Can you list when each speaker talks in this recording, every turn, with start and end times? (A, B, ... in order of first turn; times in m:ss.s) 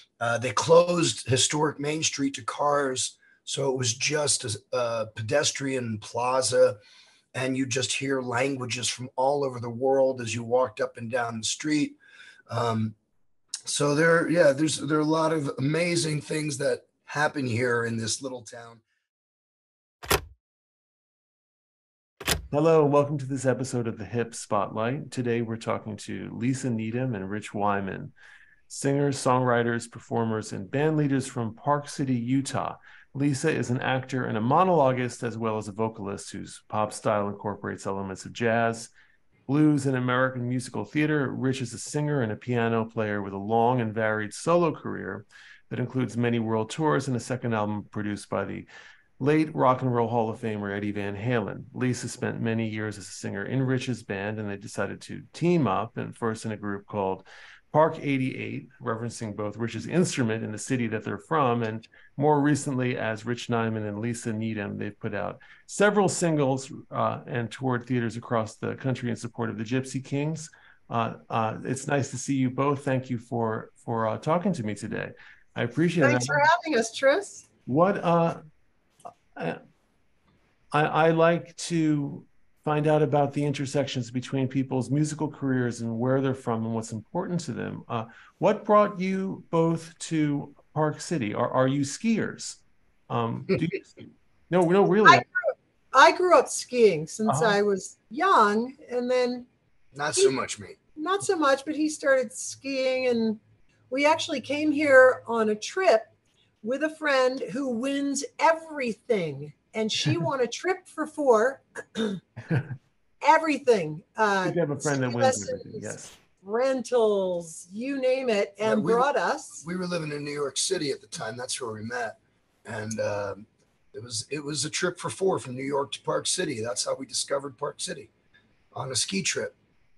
0:00.2-0:06.8 A
0:07.3-0:12.0 A
0:12.5-0:12.9 A
0:13.7-0:18.8 A
0:22.5-0:28.1 B
0:28.7-0:38.9 B
0:39.5-0:48.7 B
0:49.2-1:16.4 B
1:16.0-1:17.4 C
1:17.6-1:18.4 B
1:19.3-1:19.6 B
1:20.7-1:33.9 B
1:34.5-1:35.2 B
1:35.0-1:39.4 C
1:37.3-1:37.6 B
1:39.9-1:40.8 A
1:41.0-1:43.4 C
1:43.9-1:46.1 C
1:46.6-1:52.2 C
1:53.2-1:59.6 C
1:54.4-1:56.1 B
1:58.6-1:59.1 A
1:59.6-2:08.1 A
2:08.7-2:09.5 A